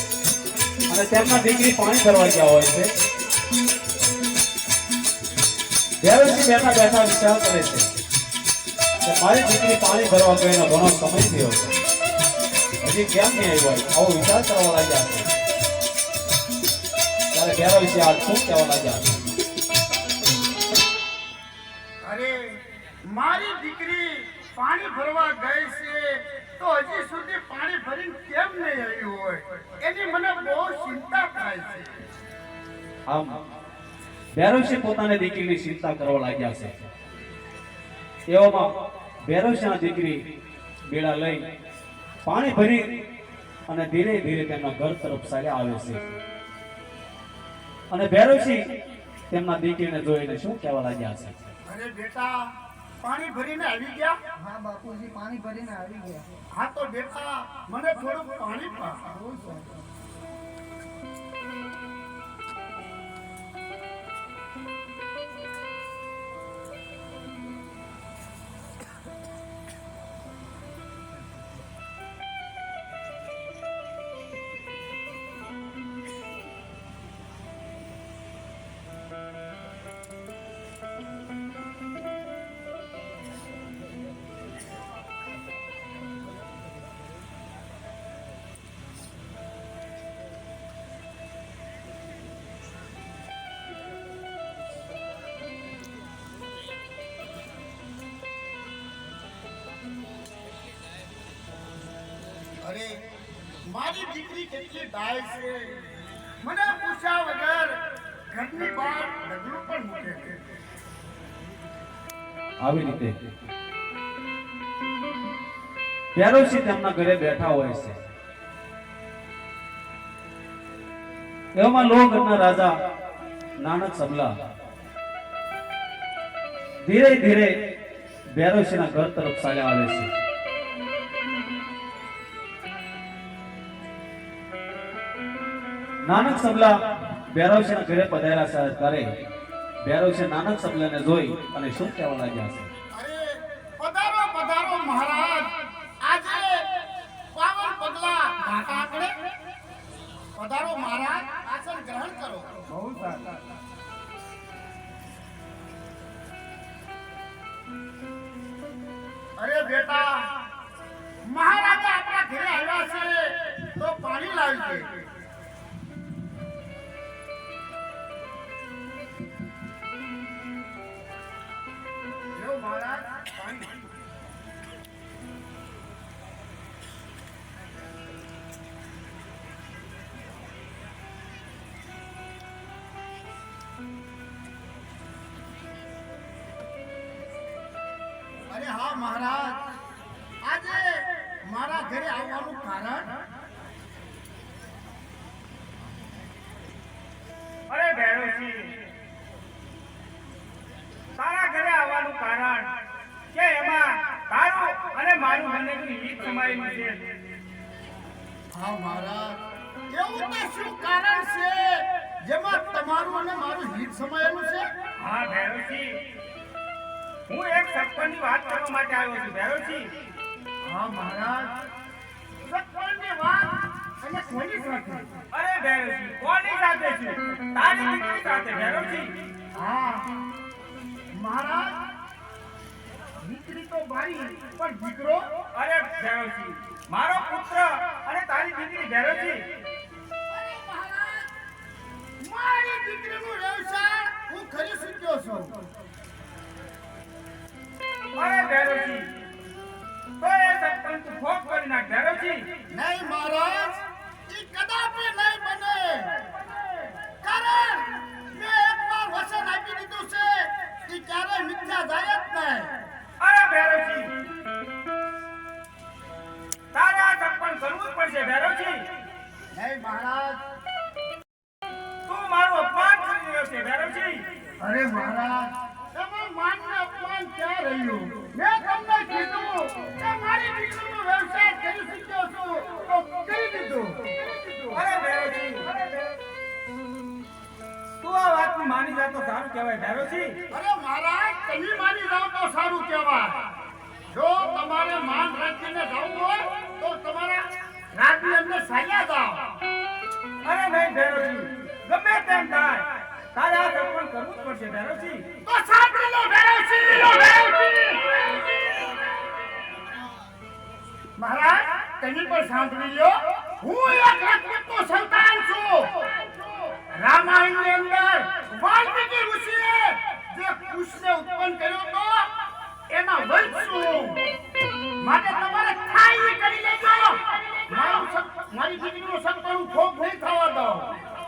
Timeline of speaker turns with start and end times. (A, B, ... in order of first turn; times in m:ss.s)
0:00.9-0:02.9 A
0:06.0-0:07.9 A
0:09.0-0:11.7 A
0:12.8-0:15.3 A
0:17.3-0:19.2 A
0:22.0-0:32.0 B
0:33.1-0:33.3 A
0:34.4-0:36.9 A
0:38.3-0:38.6 A
0:39.2-0:40.2 A
0:40.9-0:41.4 A
0:42.2-0:42.8 A
0:43.7-0:46.2 A
0:47.9-0:48.6 A
0:49.3-0:51.4 A
0:51.6-0:52.5 B
0:53.0-0:54.2 B
0:54.4-0:56.2 C
0:56.5-0:59.2 B
0:59.1-0:59.7 C
1:42.6-1:43.0 B
1:43.7-1:45.8 B
1:46.4-1:47.8 B
1:48.3-1:50.4 B
1:52.6-1:53.1 A
1:56.1-1:58.0 A
2:01.6-2:02.7 A
2:03.6-2:04.3 A
2:06.8-2:07.5 A
2:08.4-2:10.1 A
2:16.0-2:19.1 A
2:19.8-2:22.7 A
2:22.9-2:25.5 B
2:26.0-2:26.6 B
2:27.3-2:29.1 B
2:30.4-2:32.6 B
2:32.8-2:33.4 C
2:39.4-2:40.2 B
2:41.2-2:44.9 B
2:52.4-2:53.7 B
3:08.5-3:09.6 B
3:10.4-3:13.1 B
3:17.7-3:18.8 D
3:21.2-3:22.7 D
3:23.3-3:27.0 D
3:28.5-3:29.4 B
3:29.9-3:34.7 B
3:35.0-3:36.0 D
3:37.3-3:39.9 D
3:40.6-3:41.5 B
3:42.4-3:45.1 B
3:45.3-3:49.2 D
3:49.6-3:50.1 B
3:51.1-3:51.8 B
3:53.2-3:55.2 B
3:55.5-3:59.4 D
4:00.3-4:01.3 B
4:02.2-4:05.6 B
4:08.2-4:09.1 D
4:10.2-4:12.5 D
4:12.7-4:16.3 B
4:17.2-4:22.7 B
4:23.2-4:24.1 D
4:26.7-4:28.9 D
4:29.5-4:30.4 B
4:32.0-4:34.2 D
4:34.6-4:44.8 B
4:44.7-4:45.8 D
4:48.0-4:50.4 D
4:50.5-4:53.4 B
4:54.1-4:59.5 B
5:00.4-5:05.2 D
5:05.4-5:08.4 B
5:11.2-5:16.1 B
5:16.9-5:22.3 B
5:22.9-5:24.2 B
5:25.0-5:30.9 B